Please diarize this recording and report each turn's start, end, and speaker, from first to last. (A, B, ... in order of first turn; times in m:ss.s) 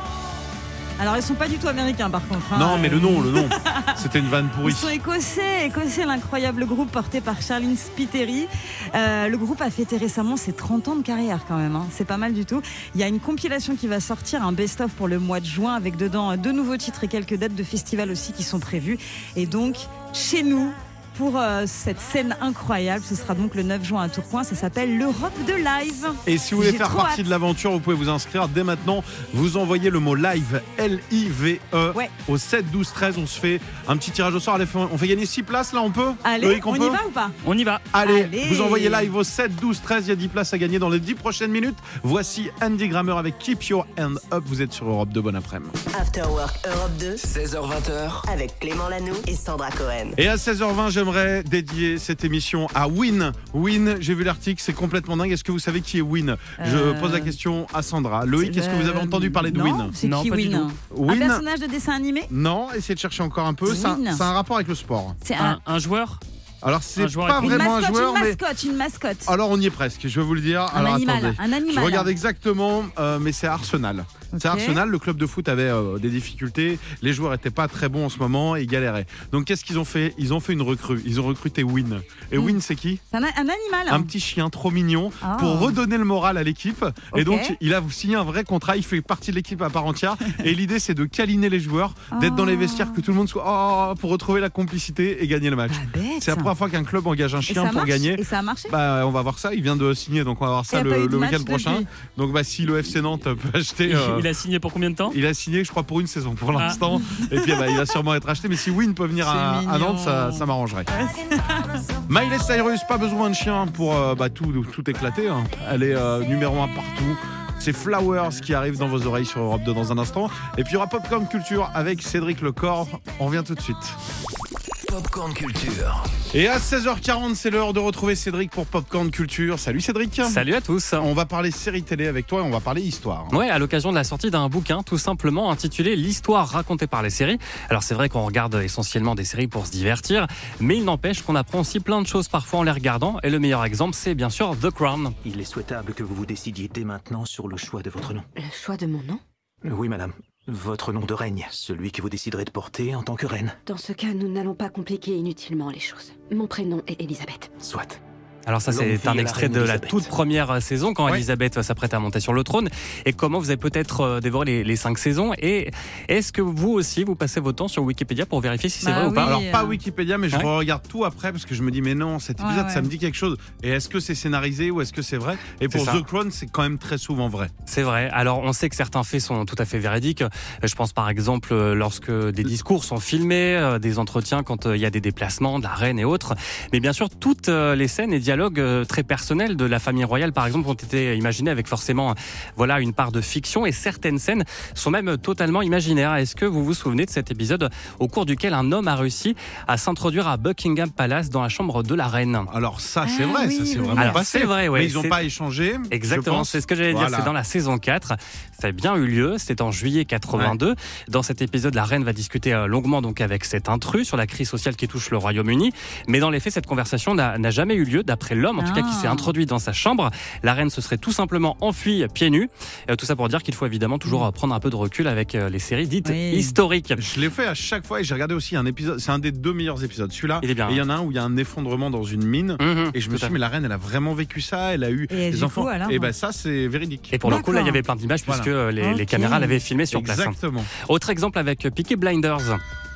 0:01.0-0:04.0 A
0:02.5-0:05.0 B
0:04.6-0:27.2 A
0:26.2-0:37.0 B
0:36.2-0:37.4 A
0:37.4-0:37.9 C
0:37.9-0:45.8 B
0:38.0-0:39.1 A
0:45.9-0:47.2 D
0:47.2-0:48.3 E
0:48.3-0:50.2 D
0:50.2-0:59.9 B
0:56.6-0:57.4 A
0:58.4-1:02.3 A
1:00.0-1:00.7 C
1:00.9-1:01.4 B
1:02.3-1:05.2 B
1:03.6-1:04.3 A
1:05.2-1:05.6 A
1:05.3-1:06.2 C
1:06.6-1:08.4 B
1:07.0-1:07.8 C
1:07.4-1:09.3 A
1:09.3-1:23.0 B
1:10.7-1:12.1 A
1:14.3-1:14.8 A
1:23.1-1:24.1 A
1:23.9-1:44.3 B
1:25.2-1:25.8 A
1:27.1-1:27.6 A
1:32.1-1:33.0 A
1:35.7-1:36.5 A
1:37.5-1:38.7 A
1:40.7-1:41.8 A
1:43.9-1:45.2 C
1:45.1-1:50.9 B
1:46.7-1:47.8 A
1:49.2-1:51.8 A
1:52.1-2:04.0 B
2:04.8-2:06.1 E
2:06.3-2:10.4 B
2:10.2-2:11.1 F
2:11.0-2:13.3 B
2:13.3-2:25.1 F
2:25.2-2:28.3 G
2:28.3-2:29.2 H
2:29.6-2:33.6 G
2:33.6-2:37.6 H
2:37.6-2:38.0 G
2:38.4-2:49.4 F
2:38.7-2:40.1 G
2:48.8-2:49.8 A
2:49.2-2:57.5 B
2:52.4-2:52.9 A
2:55.7-2:56.0 F
2:57.7-3:22.5 F
3:22.5-3:27.3 B
3:23.0-3:24.2 A
3:24.0-3:25.2 F
3:25.9-3:47.0 F
3:30.3-3:30.6 B
3:38.6-3:39.3 A
3:46.0-3:46.6 A
3:47.0-3:57.2 B
3:50.4-3:50.8 F
3:52.6-3:53.4 F
3:55.1-3:56.1 A
3:57.1-4:02.6 F
3:57.2-3:57.8 A
3:58.8-3:59.6 A
3:59.9-4:00.7 B